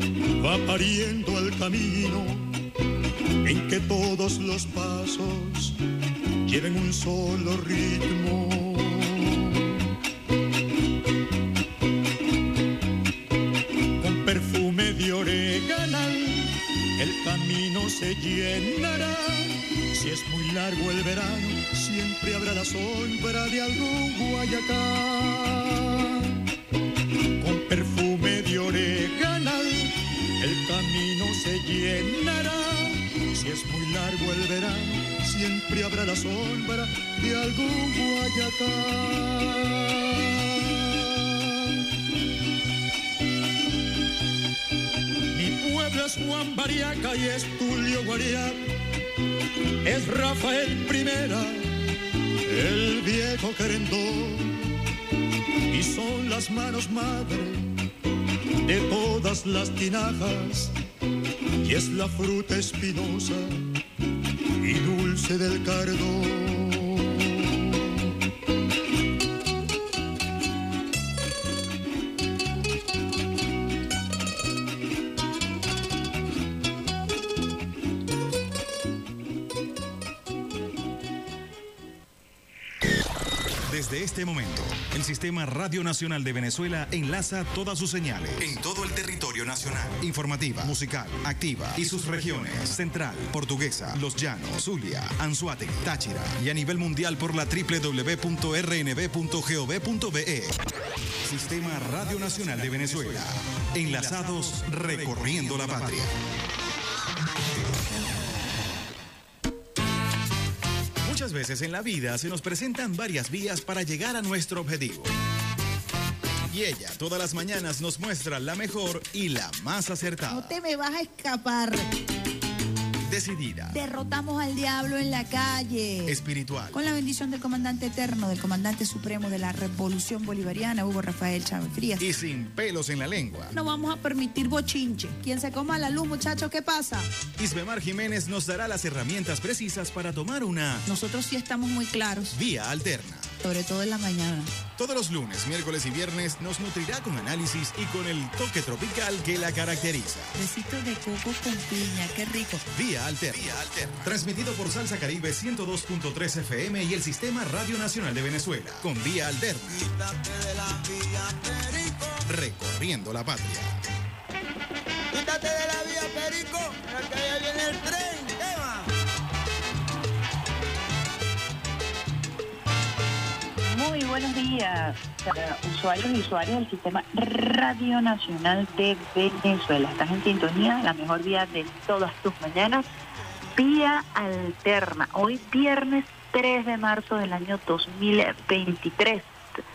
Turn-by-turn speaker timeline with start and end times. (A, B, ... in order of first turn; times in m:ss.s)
0:00.4-0:02.6 A
0:03.4-0:05.8 A
0:06.4-0:09.8 A
0:14.0-0:26.4 A
0:27.4-0:41.7 A
0:45.3-0:48.6 A
0:49.8-0:51.7 A
0:52.5-0:54.6 A
0:55.7-0:57.7 A
0:58.6-1:00.8 A
1:01.6-1:03.7 A
1:04.6-1:07.9 A
1:23.7-1:40.6 B
1:41.2-1:46.1 B
1:51.0-1:55.1 B
1:56.5-2:00.6 B
2:00.3-2:01.9 C
2:03.1-2:03.8 B
2:03.7-2:06.2 C
2:06.0-2:06.8 B
2:06.7-2:12.1 C
2:12.0-2:13.6 B
2:13.5-2:17.1 C
2:17.4-2:20.8 B
2:20.9-2:22.4 C
2:22.3-2:23.3 B
2:23.4-2:24.5 C
2:24.8-2:30.3 B
2:30.4-2:32.6 C
2:32.7-2:39.8 B
2:39.7-2:42.2 D
2:42.3-2:43.8 B
2:45.1-2:48.9 D
2:53.7-3:02.9 E
3:03.5-3:09.3 E